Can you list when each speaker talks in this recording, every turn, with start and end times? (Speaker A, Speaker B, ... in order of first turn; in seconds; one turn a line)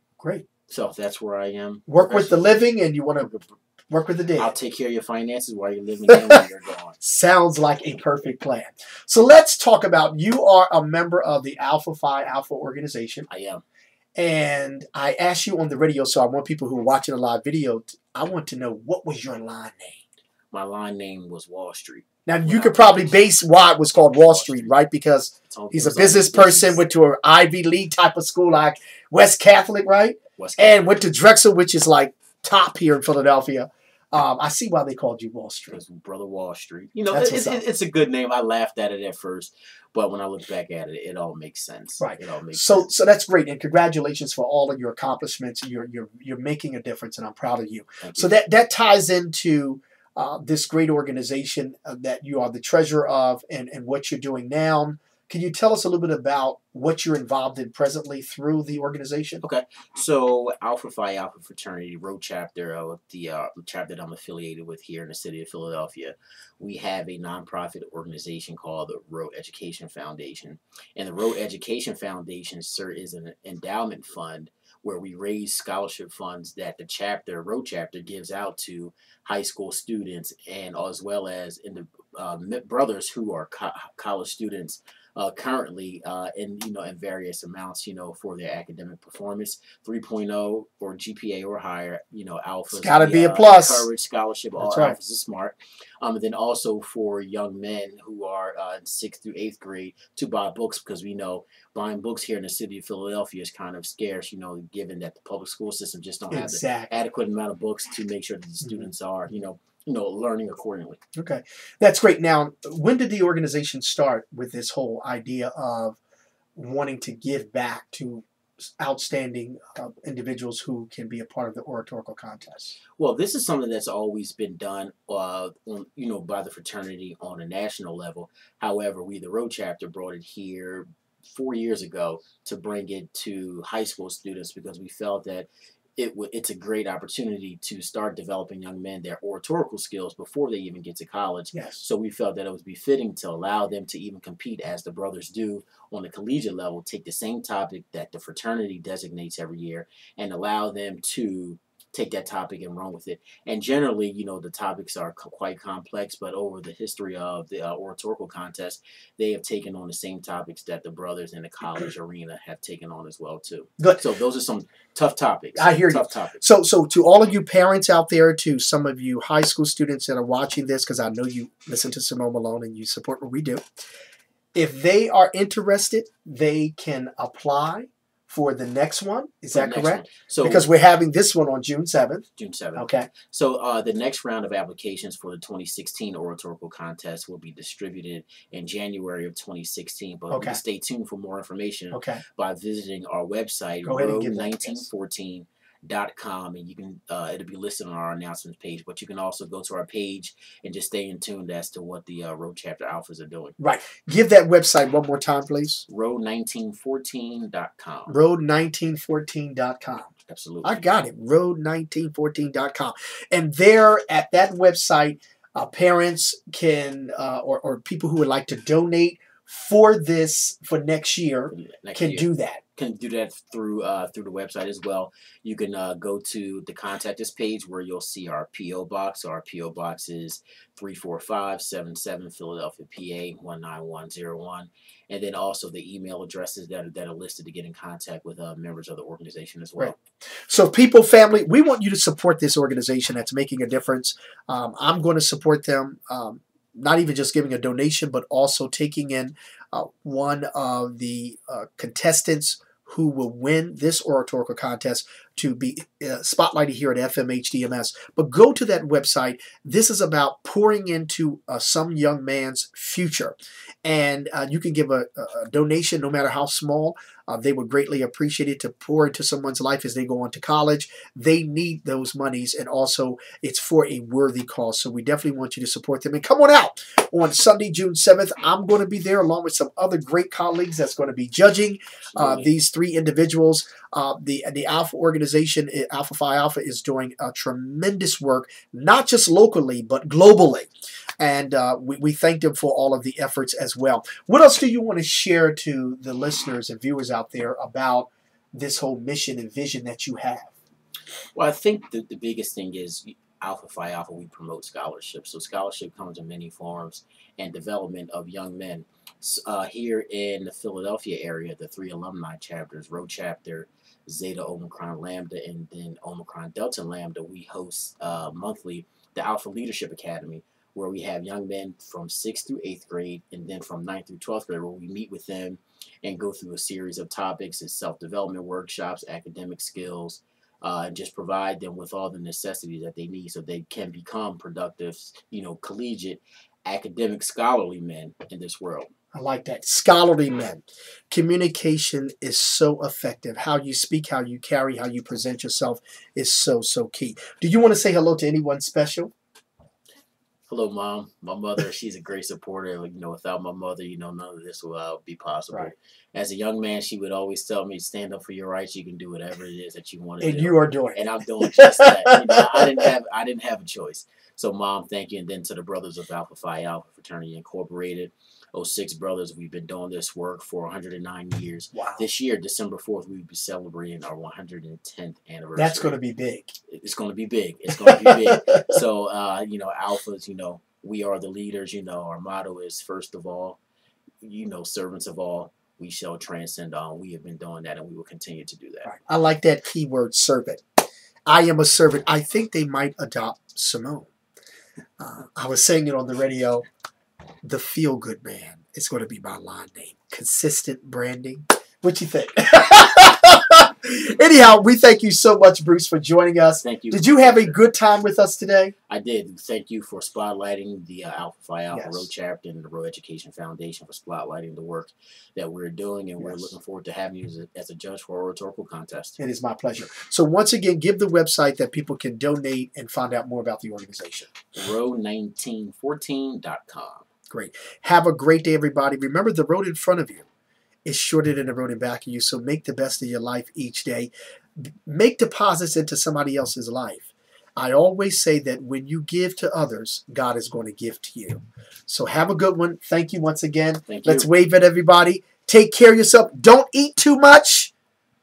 Speaker A: 0.2-0.5
Speaker B: 0.7-3.5
Speaker A: 1.9-3.3
Speaker A: 3.9-4.5
Speaker B: 4.4-7.0
Speaker A: 6.1-6.4
Speaker A: 7.0-13.3
Speaker B: 13.3-13.6
Speaker A: 14.2-20.0
Speaker B: 20.5-23.2
Speaker A: 22.2-35.8
Speaker B: 24.0-24.7
Speaker B: 25.5-26.8
Speaker B: 30.4-30.9
Speaker B: 35.7-42.9
Speaker A: 37.1-37.6
Speaker A: 42.0-59.4
Speaker B: 48.0-48.3
Speaker B: 59.4-111.0
Speaker A: 92.7-93.9
Speaker A: 94.6-95.0
Speaker A: 106.3-107.0
Speaker A: 108.6-108.9
Speaker A: 111.1-116.0
Speaker A: 116.5-122.8
Speaker B: 123.0-166.4
Speaker A: 141.5-141.8
Speaker A: 163.8-164.0
Speaker A: 165.5-173.6
Speaker A: 174.5-183.1
Speaker B: 179.5-180.7
Speaker B: 182.4-203.6
Speaker A: 190.3-190.6
Speaker A: 191.9-192.2
Speaker A: 193.8-194.9
Speaker A: 203.6-205.8
Speaker B: 205.9-208.1
Speaker A: 208.1-222.6
Speaker B: 210.3-210.8
Speaker B: 221.5-240.0
Speaker A: 240.5-300.5
Speaker B: 282.1-282.5
Speaker B: 301.3-338.9
Speaker A: 339.1-349.1
Speaker B: 350.5-375.9
Speaker A: 360.2-362.9
Speaker A: 371.7-372.0
Speaker A: 375.6-376.5
Speaker B: 376.7-383.6
Speaker A: 377.7-378.8
Speaker B: 384.2-388.9
Speaker A: 388.8-390.6
Speaker A: 391.3-394.1
Speaker A: 395.0-396.6
Speaker A: 397.4-408.7
Speaker B: 406.6-407.6
Speaker B: 408.9-419.2
Speaker A: 411.7-412.1
Speaker A: 416.2-416.6
Speaker A: 419.2-424.3
Speaker B: 424.5-427.1
Speaker A: 427.3-430.2
Speaker A: 430.9-447.7
Speaker B: 443.9-444.3